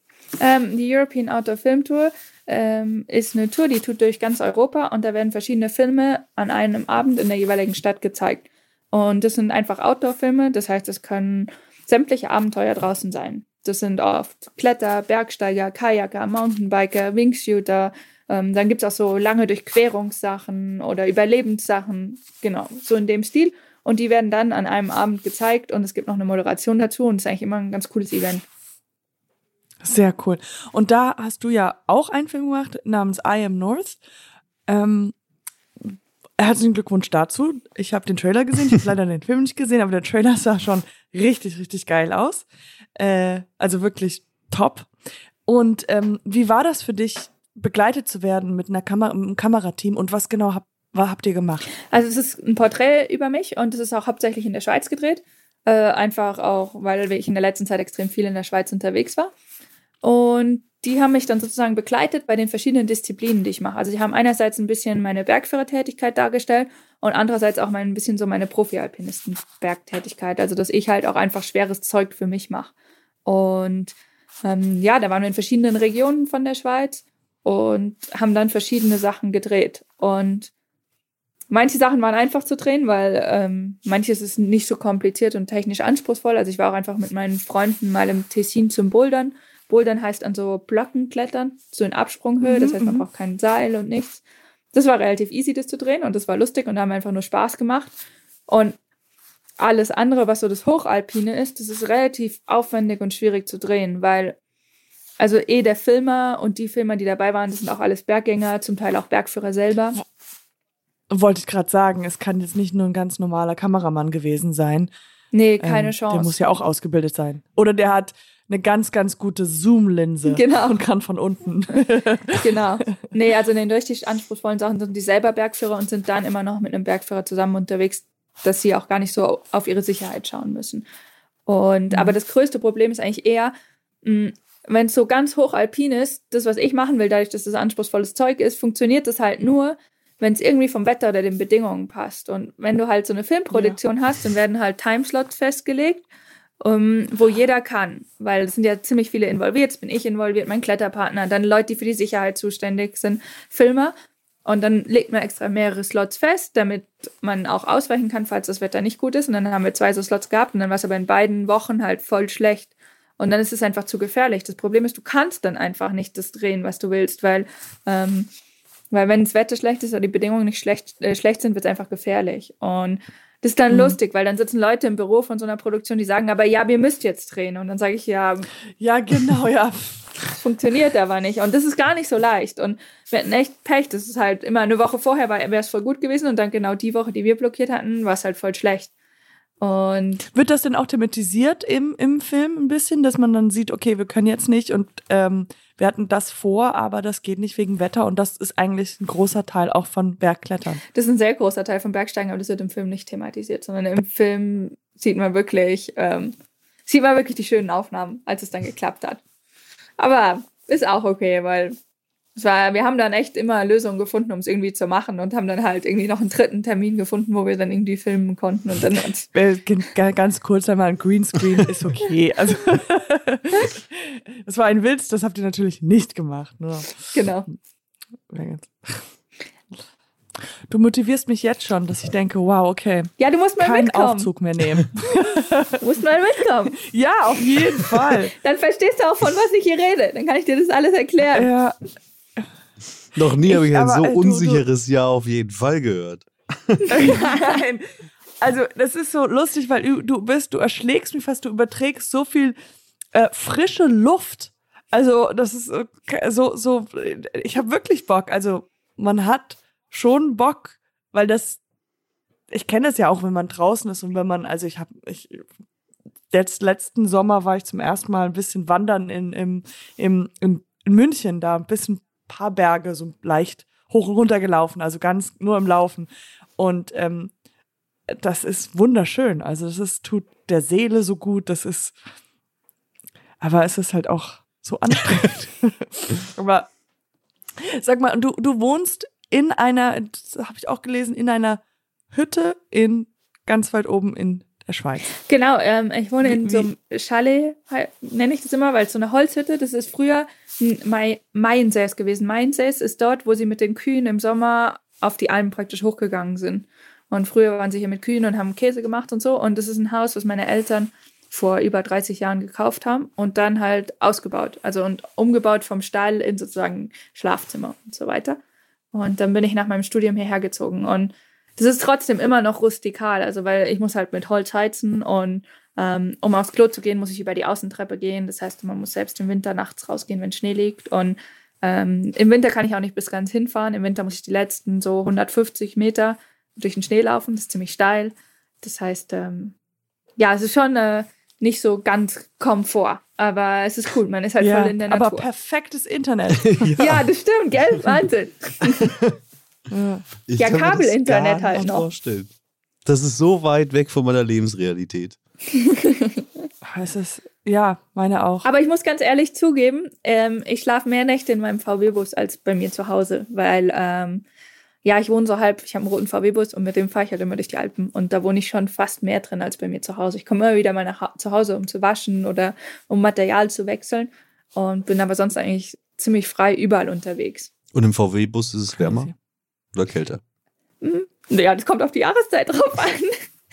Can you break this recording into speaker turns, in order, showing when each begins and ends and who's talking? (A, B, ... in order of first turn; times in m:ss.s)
0:00.4-0:28.4 A
0:29.8-0:34.0 B
0:34.7-0:35.1 B
0:35.8-0:44.9 B
0:45.4-0:51.7 B
0:51.9-0:59.3 A
1:00.0-1:12.7 A
1:13.2-1:20.5 A
1:21.5-1:38.0 A
1:32.4-1:33.0 B
1:38.5-1:38.8 A
1:39.6-1:44.4 A
1:45.2-1:50.0 A
1:51.1-1:54.9 B
1:55.3-1:56.4 A
1:55.6-2:02.6 B
2:00.2-2:00.8 A
2:02.3-2:10.9 A
2:11.4-2:13.5 A
2:11.9-2:12.2 B
2:14.0-2:26.0 A
2:23.5-2:23.8 B
2:26.6-2:33.9 A
2:34.4-2:48.3 A
2:48.9-2:58.5 A
2:53.7-2:54.0 B
2:58.8-3:00.2 B
3:00.4-3:08.9 A
3:09.6-3:10.2 A
3:10.3-3:20.8 B
3:20.9-3:26.3 A
3:26.8-3:29.2 A
3:30.0-3:31.7 A
3:32.4-3:39.3 A
3:39.3-3:47.1 B
3:47.1-3:47.5 A
3:48.3-3:49.1 B
3:50.6-3:55.8 B
3:53.2-3:54.3 A
3:55.8-3:56.8 A
3:56.8-3:58.3 B
3:58.3-4:01.5 A
4:01.3-4:01.8 B
4:03.1-4:06.9 C
4:03.4-4:04.6 B
4:06.9-4:07.6 A
4:06.9-4:07.8 B
4:08.4-4:12.6 B
4:13.1-4:21.6 B
4:22.5-4:25.4 B
4:26.3-4:37.3 B
4:38.1-4:42.0 B
4:43.4-4:46.7 B
4:47.6-4:51.6 B
4:52.1-4:55.1 B
4:55.2-5:18.4 A
4:56.2-4:56.7 B
5:18.9-5:39.5 A
5:40.2-5:45.3 A
5:44.4-5:47.0 B
5:46.4-5:46.8 C
5:46.8-5:48.9 A
5:49.7-5:50.1 B
5:50.2-5:52.3 C
5:50.4-5:51.9 A
5:51.2-5:51.8 B
5:52.8-5:55.2 C
5:55.5-5:56.2 A
5:56.6-5:58.5 B
5:58.4-6:04.2 A
6:04.8-6:17.5 A
6:17.7-6:19.1 C
6:18.8-6:19.1 B
6:19.7-6:20.2 C
6:20.8-6:23.1 A